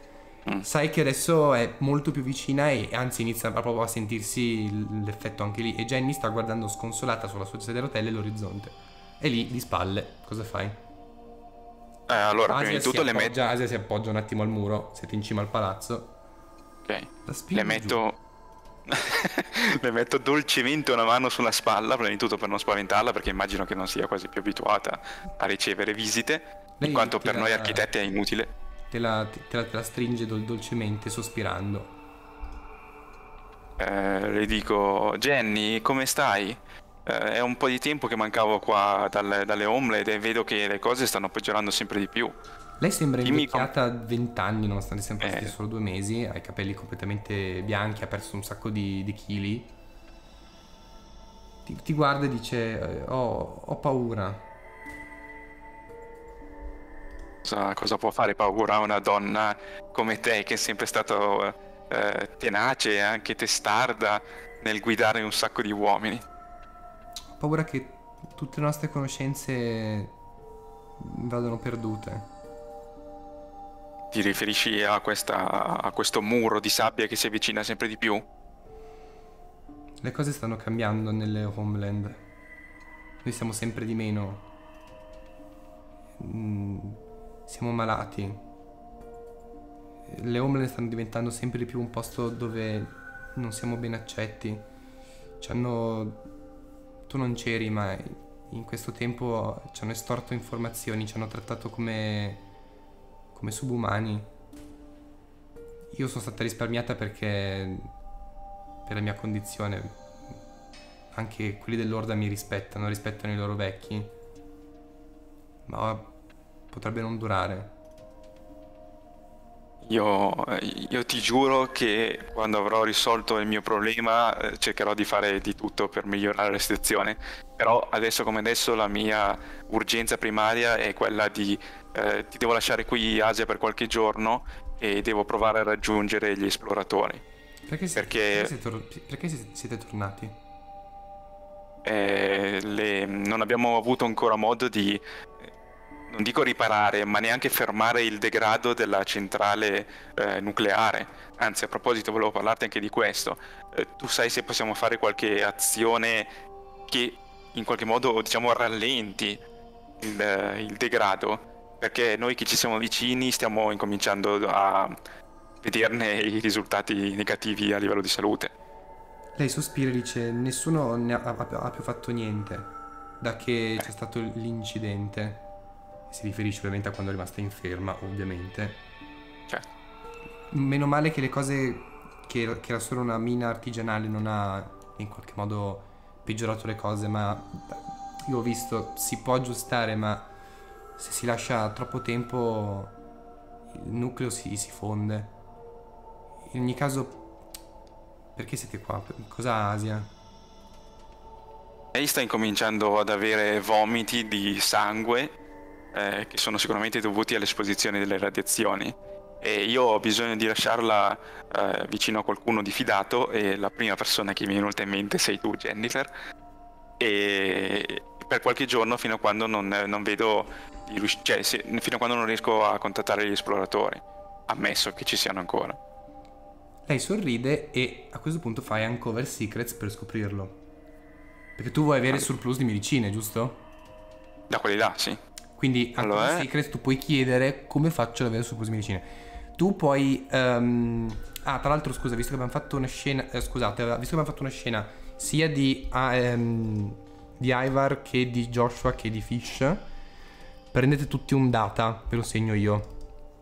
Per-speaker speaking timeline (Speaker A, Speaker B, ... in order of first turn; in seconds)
Speaker A: 0.6-10.8, 12.5-16.1, 17.2-18.0, 26.8-27.9, 28.9-31.9, 42.8-49.7, 51.6-54.5, 67.4-70.1, 71.0-72.3, 80.0-82.2, 83.2-84.4, 86.2-88.4, 90.1-94.7, 95.4-96.2, 97.1-102.4, 103.3-104.3, 105.9-107.9, 108.9-110.0, 111.1-114.1, 115.7-116.1, 116.7-117.7, 137.7-140.4, 169.4-175.5, 176.1-178.8, 180.5-190.3, 191.0-192.9, 193.7-195.3, 196.5-197.3, 198.4-200.1, 226.9-230.6, 231.6-233.6, 235.6-249.8, 250.7-252.9
Speaker B: 12.1-13.4, 16.9-18.2, 18.9-28.5, 33.8-42.4, 43.2-43.7, 45.2-45.5, 57.4-66.2, 74.1-78.2, 119.8-137.2, 138.0-138.5, 141.8-145.5, 146.1-156.3, 156.9-159.4, 160.0-165.0, 165.6-168.5, 201.9-205.4, 205.9-216.1, 217.0-225.8, 234.5-235.2, 236.0-236.5